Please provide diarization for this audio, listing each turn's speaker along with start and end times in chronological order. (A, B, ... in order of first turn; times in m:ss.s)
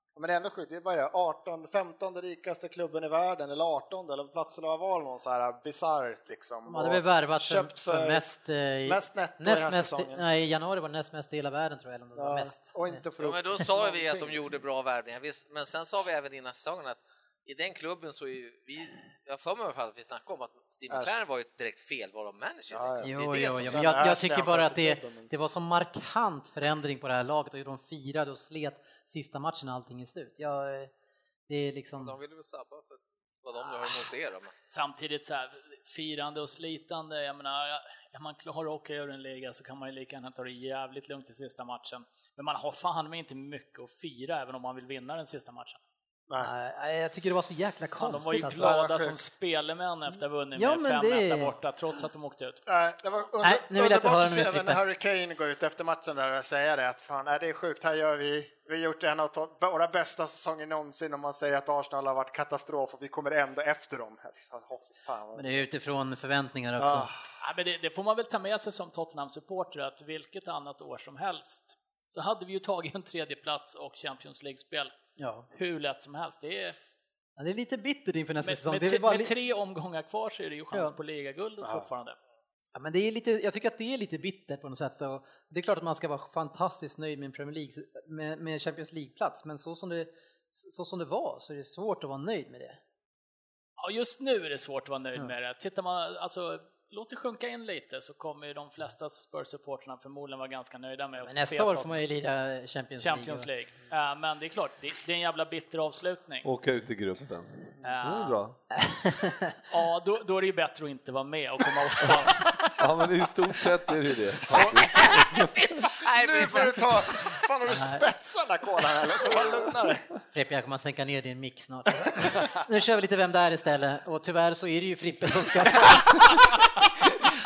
0:00.2-0:08.2 A
0:06.7-0:13.0 B
0:08.9-0:10.2 A
0:12.2-0:14.5 A
0:13.2-0:23.9 C
0:22.7-0:25.3 A
0:23.0-0:30.9 B
0:31.5-0:32.2 B
0:32.0-0:34.5 C
0:34.7-0:45.8 D
0:46.4-0:48.7 B
0:48.0-0:52.6 D
0:48.6-0:49.2 A
0:50.6-0:51.6 B
0:52.7-1:05.7 A
0:53.4-0:54.8 B
1:05.4-1:07.1 B
1:06.8-1:07.2 A
1:07.4-1:14.9 D
1:15.2-1:15.5 B
1:15.5-1:16.8 D
1:17.4-1:19.3 B
1:18.4-1:22.2 D
1:21.6-1:21.9 A
1:22.8-1:32.8 B
1:33.8-1:42.0 D
1:41.2-1:43.5 B
1:43.0-1:46.5 D
1:46.4-1:48.6 E
1:47.8-1:48.4 D
1:48.7-1:49.6 B
1:49.7-1:52.7 D
1:52.8-1:55.8 E
1:54.5-1:56.9 C
1:56.1-2:00.1 A
1:57.7-1:58.0 B
2:00.3-2:07.3 B